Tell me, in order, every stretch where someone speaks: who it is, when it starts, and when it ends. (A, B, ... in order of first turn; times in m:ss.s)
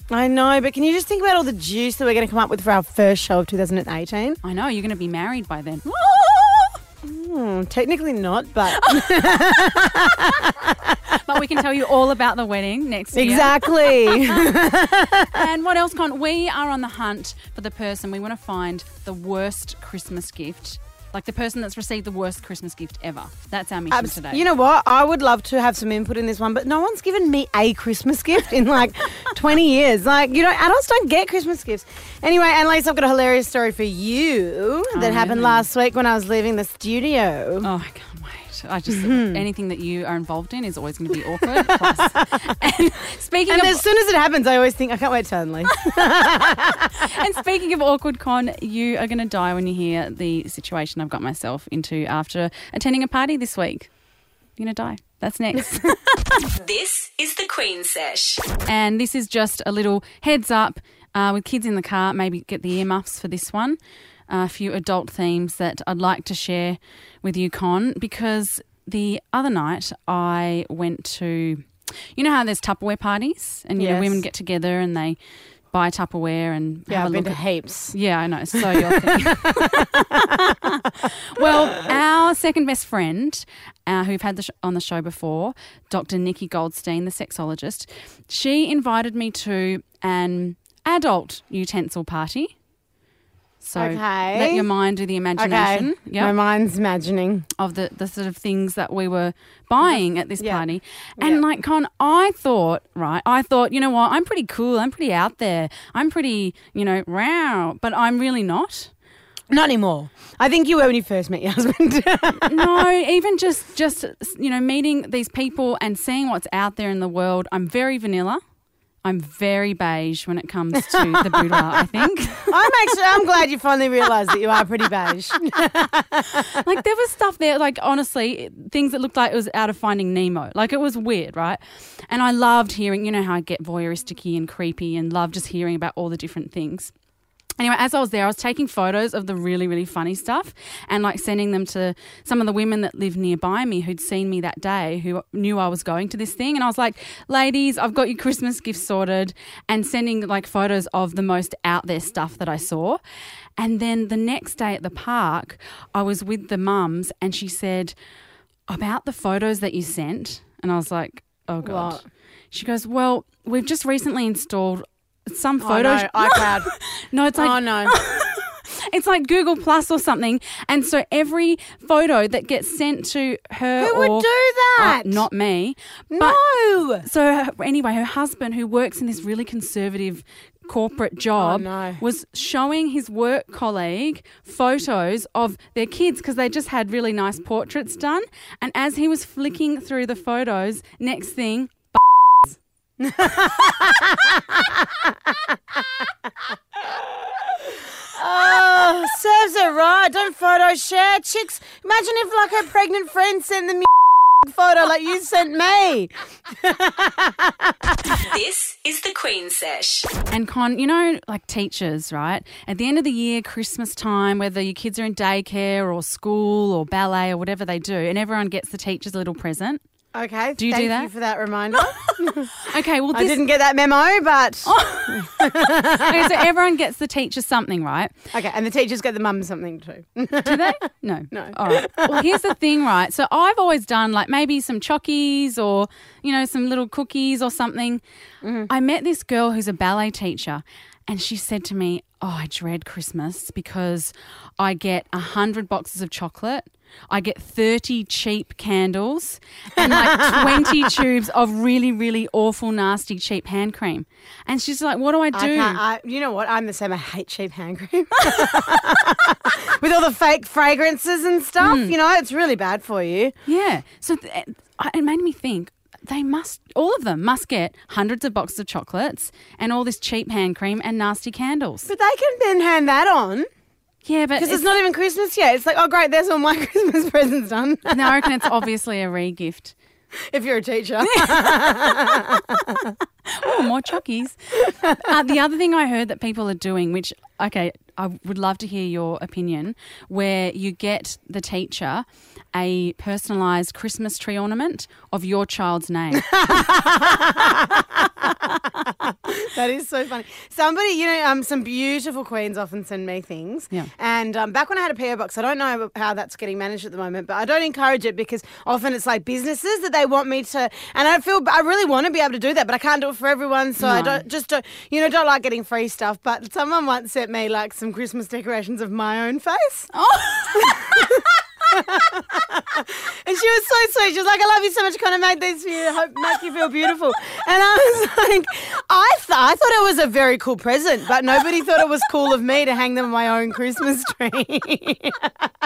0:00.1-0:04.4 A
0:04.4-0:05.8 B
0:05.8-0:11.2 A
0:11.2-0:14.2 B
0:13.1-0:15.4 A
0:15.3-0:24.4 B
0:23.9-0:37.7 A
0:34.9-0:35.7 B
0:37.6-0:43.8 B
0:38.9-0:39.4 A
0:41.5-0:42.2 A
0:43.5-0:46.9 A
0:47.0-0:53.9 B
0:54.6-0:55.9 B
0:56.5-0:58.5 C
0:58.7-1:15.2 B
1:13.8-1:14.2 A
1:15.7-1:32.6 B
1:16.9-1:18.0 A
1:18.5-1:20.6 A
1:33.6-1:36.4 B
1:33.8-1:34.7 A
1:35.4-1:37.5 A
1:37.6-1:48.9 B
1:39.8-1:40.6 A
1:41.2-1:41.4 A
1:49.5-1:52.8 A
1:52.4-1:58.4 B
1:59.0-2:02.6 B
2:00.8-2:01.8 A
2:02.5-2:06.6 A
2:06.5-2:16.9 B
2:17.6-2:33.0 B
2:33.6-2:38.0 B
2:38.7-2:56.4 B
2:41.6-2:42.0 A
2:45.6-2:46.7 A
2:47.4-2:48.0 A
2:53.8-2:55.2 A
2:56.1-2:57.0 A
2:57.0-3:12.6 B
3:01.4-3:02.0 A
3:13.0-3:16.0 A
3:16.8-3:28.0 A
3:28.1-3:30.2 C
3:30.3-3:39.8 B
3:40.1-3:42.6 A
3:40.6-3:41.1 B
3:42.6-3:43.4 B
3:43.1-3:46.4 A
3:44.7-3:45.4 B
3:45.9-3:48.1 B
3:48.3-3:50.8 A
3:50.4-3:58.0 B
3:51.3-3:52.5 A
3:58.4-3:58.7 A
3:58.7-4:15.8 B
4:09.8-4:10.9 A
4:15.3-4:23.4 A
4:21.6-4:21.9 B
4:23.5-4:31.9 B
4:31.9-4:33.5 A
4:34.0-4:34.7 B
4:34.4-4:38.3 A
4:37.9-4:39.8 B
4:40.3-4:43.0 A
4:41.1-4:42.1 B
4:43.3-4:44.4 B
4:44.7-4:45.0 A
4:44.9-4:56.7 B
4:56.2-5:19.9 A
5:13.8-5:14.2 B
5:19.9-5:20.8 B
5:20.5-5:35.5 A